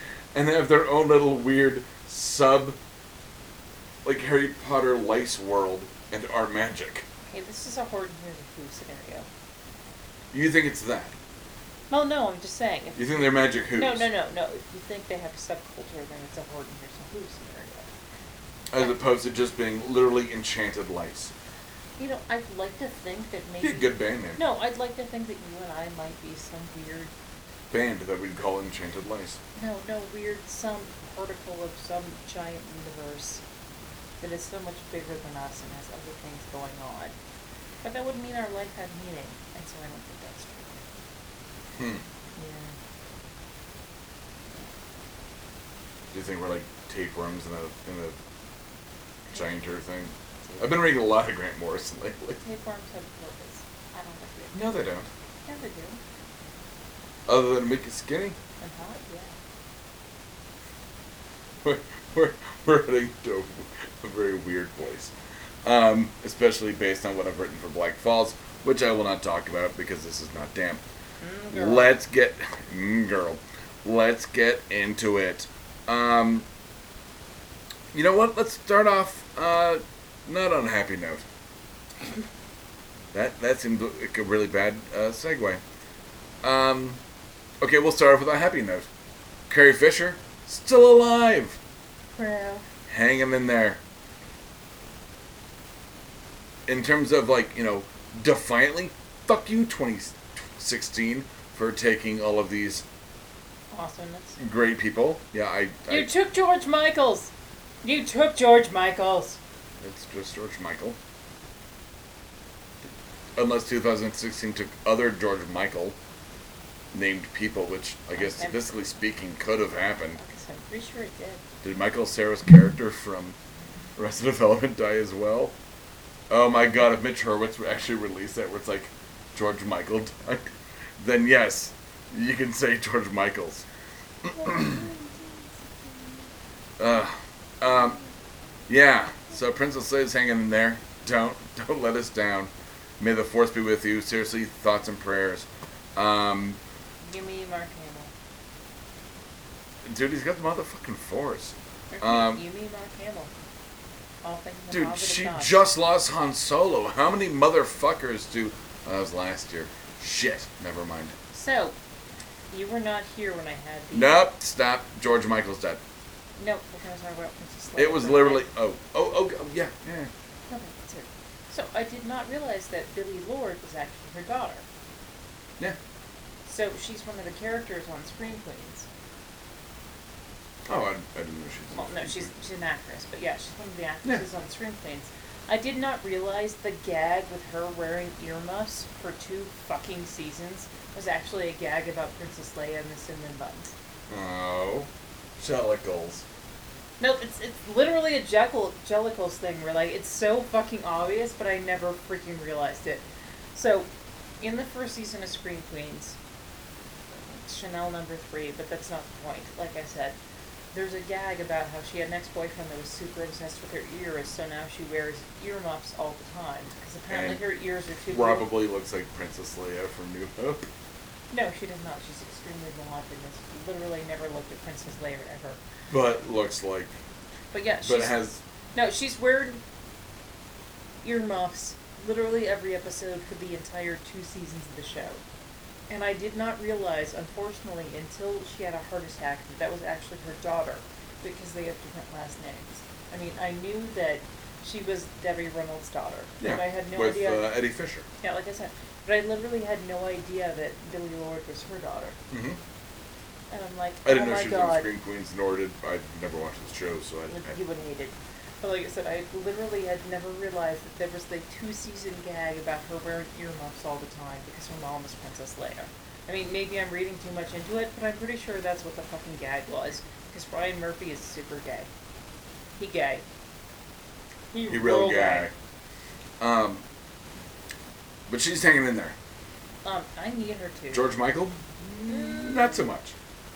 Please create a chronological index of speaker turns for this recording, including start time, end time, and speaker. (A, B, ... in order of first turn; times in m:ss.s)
0:00.3-0:02.8 A
0:04.0-0:07.1 A
0:07.3-0:09.3 B
0:10.3-0:11.2 A
0:11.9-0:17.9 B
0:13.0-0:14.1 A
0:18.7-0:21.3 A
0:22.0-0:27.1 B
0:23.6-0:24.4 A
0:27.7-0:29.4 A
0:29.6-0:33.4 B
0:34.2-0:37.1 B
0:37.8-0:40.8 B
0:41.8-0:42.0 A
0:42.4-0:42.8 B
0:46.1-0:48.2 A
0:49.3-0:52.4 A
0:50.4-0:50.7 B
0:52.4-0:54.6 B
0:54.5-0:55.1 A
0:55.4-0:56.0 B
0:57.3-0:58.4 A
0:58.6-0:59.4 B
1:01.6-1:05.1 A
1:05.6-1:10.8 A
1:11.2-1:12.0 B
1:11.5-1:16.5 A
1:17.9-1:21.2 A
1:23.1-1:25.6 A
1:26.4-1:27.0 A
1:27.6-1:28.9 A
1:29.5-1:31.6 A
1:32.2-1:32.6 B
1:32.9-1:33.8 A
1:36.7-1:42.8 A
1:43.7-1:44.4 B
1:44.4-1:46.1 A
1:45.9-1:47.3 B
1:47.8-1:49.4 B
1:49.8-1:51.0 A
1:53.4-1:56.0 A
1:56.9-2:00.2 A
1:58.2-1:58.7 B
2:00.2-2:01.4 B
2:01.6-2:03.4 A
2:04.0-2:05.5 A
2:06.3-2:13.7 A
2:14.3-2:14.9 A
2:14.3-2:15.9 B
2:16.8-2:18.0 A
2:18.7-2:26.6 A
2:27.0-2:28.1 B
2:29.8-2:32.4 A
2:31.9-2:33.3 B
2:34.2-2:35.6 B
2:34.7-2:41.2 A
2:41.3-2:41.8 B
2:42.5-2:44.2 B
2:43.9-2:45.8 A
2:46.4-2:48.5 B
2:47.8-2:50.1 A
2:50.5-2:54.6 B
2:56.5-2:58.9 B
3:00.7-3:02.3 A
3:01.7-3:13.7 B
3:14.1-3:16.2 A
3:17.0-3:23.9 B
3:24.4-3:26.2 B
3:27.1-3:30.2 B
3:30.7-3:38.5 B
3:37.1-3:37.4 A
3:38.1-3:40.7 A
3:41.3-3:45.6 B
3:45.9-3:47.0 A
3:47.5-3:48.2 B
3:47.8-3:48.4 A
3:48.8-3:49.6 B
3:51.0-3:55.2 B
3:55.9-4:07.5 B
4:06.4-4:08.1 A
4:08.2-4:12.2 B
4:12.3-4:12.6 A
4:13.5-4:14.9 B
4:14.0-4:17.6 A
4:17.3-4:31.9 B
4:32.8-4:33.2 B
4:34.5-4:35.5 B
4:34.7-4:35.5 A
4:36.4-4:36.8 A
4:38.3-4:39.2 A
4:39.8-4:41.1 B
4:40.9-4:43.2 A
4:42.0-4:42.9 B